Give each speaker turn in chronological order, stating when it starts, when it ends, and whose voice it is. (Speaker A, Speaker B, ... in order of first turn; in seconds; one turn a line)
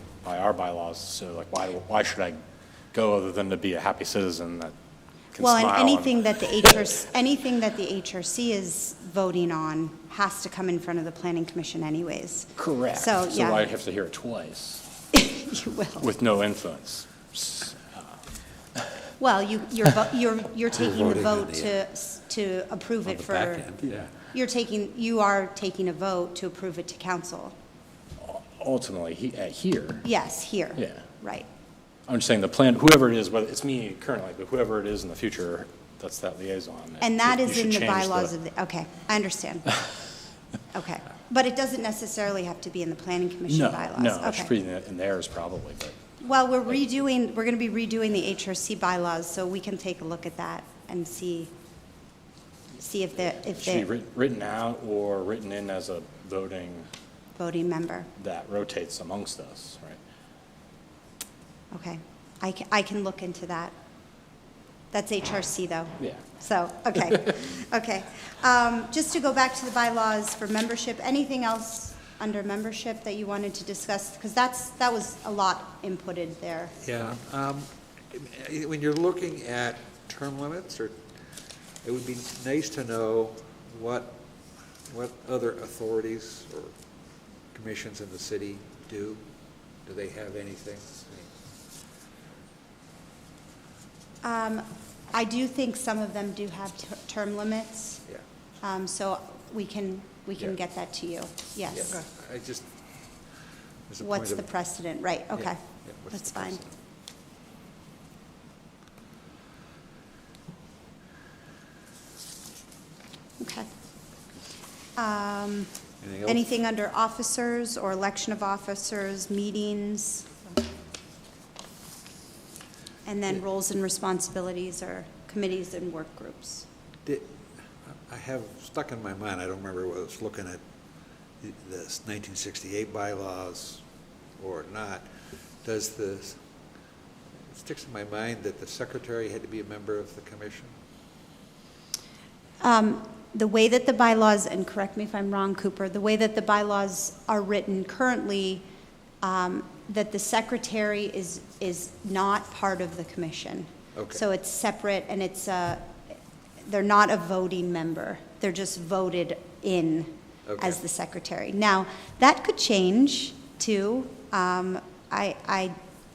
Speaker A: 0.2-2.4
Speaker A: 2.9-4.7
Speaker A: 5.3-6.9
Speaker B: 5.4-13.7
Speaker A: 12.6-14.8
Speaker B: 15.1-16.1
Speaker A: 16.0-18.1
Speaker B: 19.2-23.7
Speaker C: 20.7-21.8
Speaker C: 23.0-24.0
Speaker B: 24.3-27.5
Speaker A: 28.2-30.1
Speaker B: 30.0-31.5
Speaker A: 30.8-31.0
Speaker A: 32.1-38.3
Speaker B: 37.0-39.7
Speaker B: 40.7-44.5
Speaker A: 43.5-46.0
Speaker B: 46.2-51.5
Speaker B: 52.8-53.9
Speaker A: 53.1-56.9
Speaker B: 57.3-58.1
Speaker A: 58.2-60.0
Speaker B: 61.7-63.7
Speaker B: 64.9-76.8
Speaker C: 76.8-81.0
Speaker C: 81.8-84.2
Speaker C: 84.9-86.7
Speaker C: 87.5-89.2
Speaker C: 89.8-91.3
Speaker B: 94.2-98.0
Speaker B: 98.6-101.9
Speaker C: 101.7-102.7
Speaker C: 103.9-104.5
Speaker B: 104.0-105.6
Speaker C: 105.3-106.7
Speaker B: 106.1-106.6
Speaker B: 113.4-113.7
Speaker B: 115.0-115.7
Speaker C: 116.0-116.4
Speaker B: 116.2-120.5
Speaker B: 123.0-126.7
Speaker C: 127.8-130.6
Speaker C: 131.4-133.8
Speaker C: 134.4-135.1
Speaker C: 135.6-136.4
Speaker C: 137.4-140.7
Speaker B: 142.6-148.6
Speaker B: 149.2-155.9
Speaker C: 153.9-154.2
Speaker B: 156.6-165.8
Speaker C: 160.4-160.8